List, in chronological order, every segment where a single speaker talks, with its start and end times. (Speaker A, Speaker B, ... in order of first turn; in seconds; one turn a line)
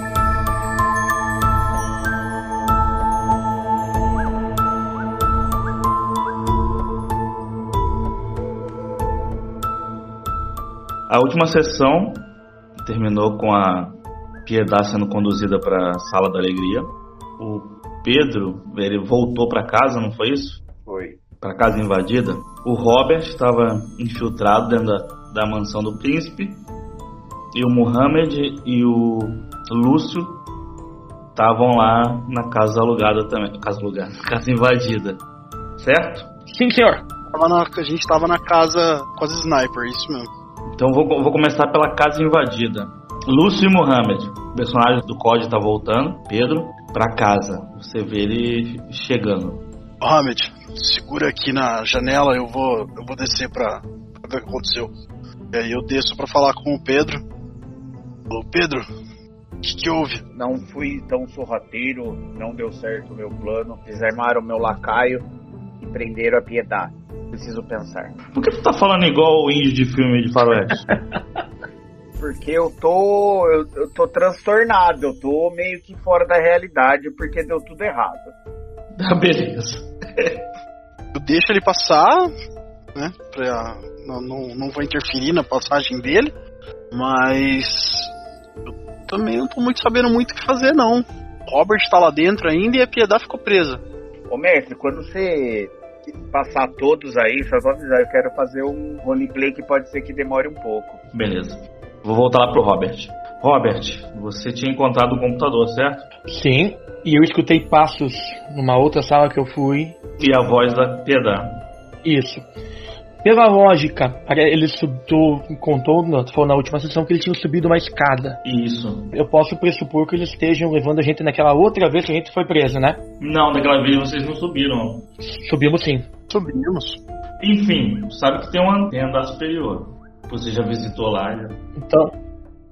Speaker A: 11.1-12.3
Speaker A: 12.8-20.6
Speaker B: 20.8-21.2
Speaker A: 21.4-26.6
Speaker A: 27.5-30.4
Speaker A: 31.3-35.2
Speaker A: 35.8-36.3
Speaker C: 36.5-37.0
Speaker D: 37.3-40.3
Speaker A: 40.8-49.6
Speaker D: 50.0-54.9
Speaker D: 55.5-57.2
Speaker D: 58.3-58.8
Speaker D: 59.6-60.2
Speaker B: 60.3-65.2
Speaker B: 65.8-68.1
Speaker A: 68.3-70.9
Speaker B: 72.2-78.3
Speaker A: 78.9-80.4
Speaker D: 81.1-82.3
Speaker D: 82.9-86.3
Speaker D: 86.9-88.1
Speaker D: 88.7-93.8
Speaker B: 94.3-101.0
Speaker A: 101.1-106.0
Speaker C: 106.3-110.0
Speaker A: 110.2-111.5
Speaker C: 112.0-112.5
Speaker C: 113.2-118.4
Speaker A: 118.4-119.1
Speaker C: 119.1-123.0
Speaker A: 123.2-125.0
Speaker C: 125.3-126.1
Speaker D: 126.3-127.0
Speaker A: 127.4-131.6
Speaker C: 131.8-132.1